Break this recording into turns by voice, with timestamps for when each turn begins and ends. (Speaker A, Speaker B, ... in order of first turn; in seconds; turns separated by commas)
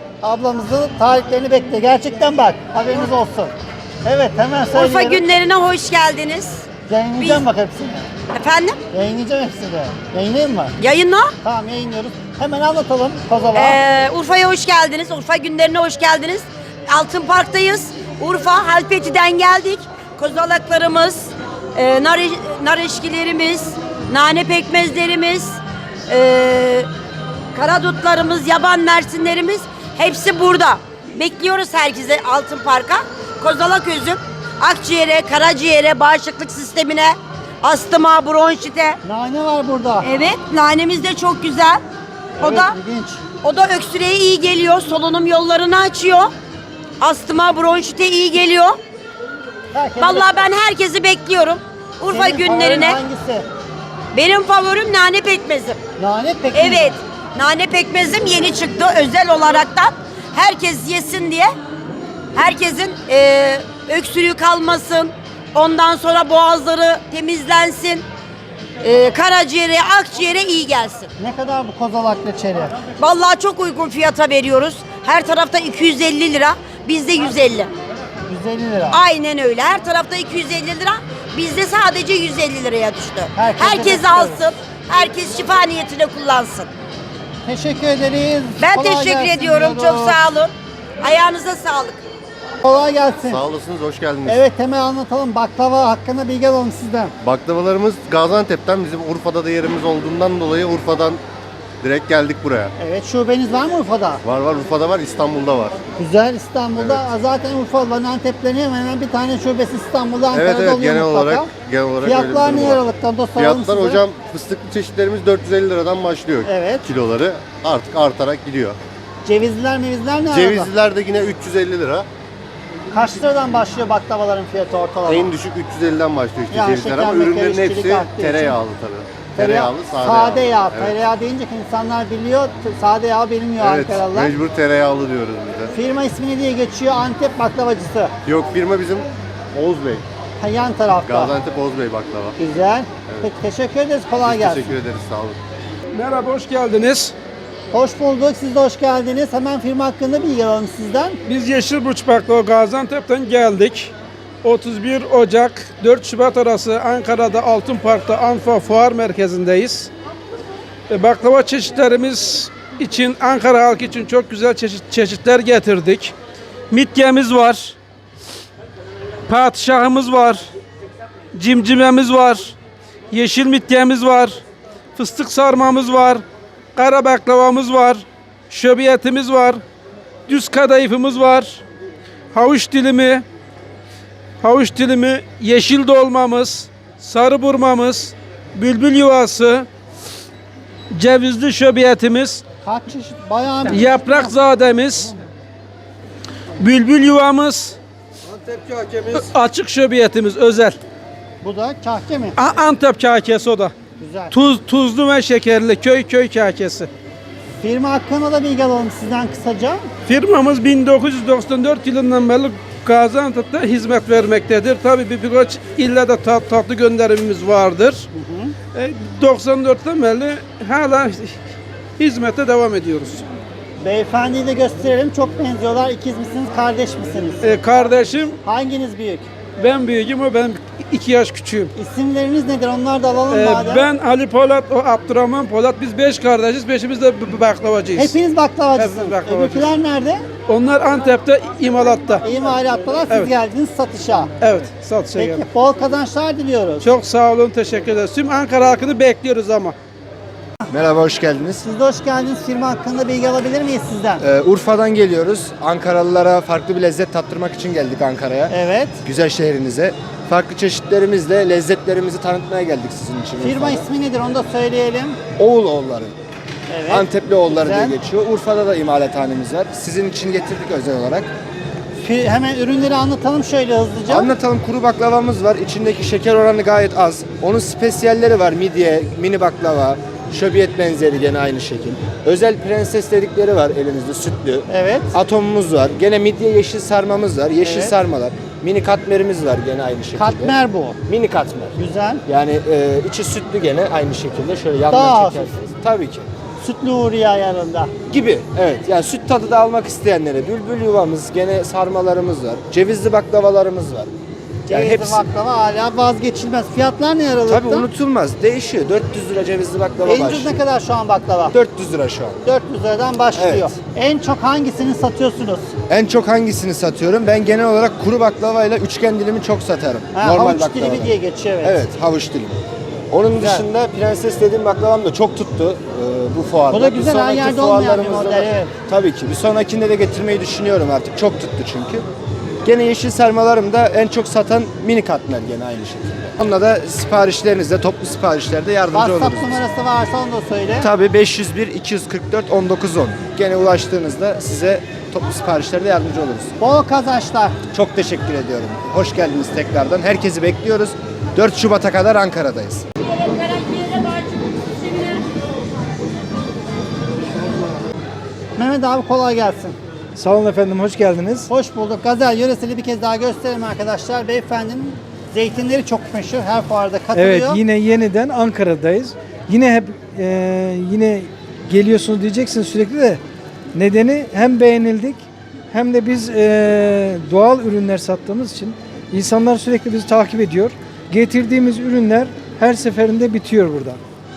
Speaker A: 0.2-5.3, Speaker B: 4.7-6.7, Speaker A: 6.9-8.1, Speaker B: 7.2-7.4, Speaker B: 8.3-8.8, Speaker A: 8.9-10.8, Speaker B: 10.8-11.3, Speaker A: 11.4-13.8, Speaker B: 13.5-26.9, Speaker B: 27.5-39.0, Speaker A: 39.0-40.1, Speaker B: 40.0-41.8, Speaker A: 42.4-43.2, Speaker B: 42.4-42.8, Speaker B: 43.4-46.3, Speaker B: 47.0-48.8, Speaker A: 49.7-50.4, Speaker B: 50.0-53.0, Speaker A: 52.1-53.5, Speaker B: 54.1-55.8, Speaker A: 56.0-57.0, Speaker B: 56.5-61.5, Speaker B: 62.4-68.0, Speaker B: 68.8-71.1, Speaker A: 71.2-72.8, Speaker B: 73.0-77.7, Speaker A: 78.3-79.0, Speaker B: 78.9-86.7, Speaker A: 83.3-84.5, Speaker A: 87.4-90.2, Speaker B: 88.6-92.0, Speaker A: 92.6-93.4, Speaker C: 93.3-94.4, Speaker A: 94.2-97.1, Speaker C: 97.2-101.2, Speaker C: 101.8-102.7, Speaker A: 102.8-104.2, Speaker C: 104.2-105.8, Speaker A: 106.0-111.5, Speaker C: 106.8-107.0, Speaker C: 110.3-112.8, Speaker A: 112.0-114.0, Speaker C: 113.3-118.8, Speaker A: 116.4-116.9, Speaker A: 119.2-120.7, Speaker C: 120.3-122.1, Speaker A: 122.9-125.3, Speaker C: 125.0-131.0, Speaker A: 126.5-128.6, Speaker A: 129.3-134.3, Speaker C: 133.6-135.7, Speaker A: 135.7-138.1, Speaker C: 138.2-140.0, Speaker A: 140.4-141.4, Speaker C: 141.0-142.4, Speaker A: 142.4-144.7, Speaker C: 144.2-145.4, Speaker D: 145.9-147.1, Speaker A: 147.7-151.2, Speaker D: 151.2-153.9, Speaker D: 154.4-159.9, Speaker D: 160.9-166.1, Speaker D: 166.7-167.8, Speaker D: 169.3-170.5, Speaker D: 171.3-172.5, Speaker D: 173.1-174.4, Speaker D: 174.9-176.2, Speaker D: 176.8-179.6, Speaker D: 180.3-181.6, Speaker D: 182.3-183.2, Speaker D: 184.4-189.7, Speaker D: 190.9-192.4, Speaker A: 192.6-194.4, Speaker D: 193.7-195.2, Speaker D: 196.6-197.8, Speaker D: 199.1-200.8, Speaker A: 201.4-202.4, Speaker D: 202.4-203.7, Speaker A: 204.0-204.3, Speaker D: 204.3-206.9, Speaker A: 207.6-209.9, Speaker D: 210.1-218.1, Speaker A: 218.1-218.5, Speaker D: 218.7-221.4, Speaker D: 222.0-223.2, Speaker A: 223.8-227.4, Speaker D: 227.4-228.4, Speaker A: 228.4-229.3, Speaker D: 229.6-231.7, Speaker A: 231.8-233.9, Speaker D: 233.3-238.2, Speaker A: 237.9-240.2, Speaker D: 238.7-239.7, Speaker D: 240.5-242.2, Speaker A: 242.2-244.3, Speaker D: 244.4-245.4, Speaker A: 245.1-246.9, Speaker D: 246.8-249.8, Speaker E: 250.7-251.6, Speaker A: 251.6-254.2, Speaker E: 254.2-263.9, Speaker A: 258.5-259.0, Speaker A: 263.4-265.2, Speaker E: 265.4-266.1, Speaker A: 266.7-267.1, Speaker E: 266.9-271.3, Speaker A: 267.6-268.0, Speaker A: 272.0-274.4, Speaker E: 274.1-290.5, Speaker A: 284.7-285.1, Speaker A: 287.6-288.0, Speaker A: 290.1-291.0, Speaker E: 291.1-291.8, Speaker A: 291.8-292.2, Speaker E: 292.2-296.3, Speaker A: 294.9-295.5, Speaker A: 296.6-297.9, Speaker E: 298.1-304.1, Speaker E: 304.7-305.2, Speaker A: 304.7-307.9, Speaker E: 307.5-310.5, Speaker A: 310.0-311.5, Speaker E: 311.5-312.4, Speaker A: 312.4-315.8, Speaker E: 313.4-313.7, Speaker E: 315.9-332.0, Speaker A: 320.1-321.8, Speaker A: 323.3-323.6, Speaker A: 326.7-328.7, Speaker E: 332.6-339.6, Speaker A: 338.9-340.9, Speaker E: 340.8-346.5, Speaker A: 346.6-347.6, Speaker E: 347.7-352.8, Speaker B: 353.0-355.2, Speaker A: 358.6-359.8, Speaker F: 360.1-361.5, Speaker A: 361.5-367.6, Speaker F: 367.1-373.2, Speaker F: 373.7-384.0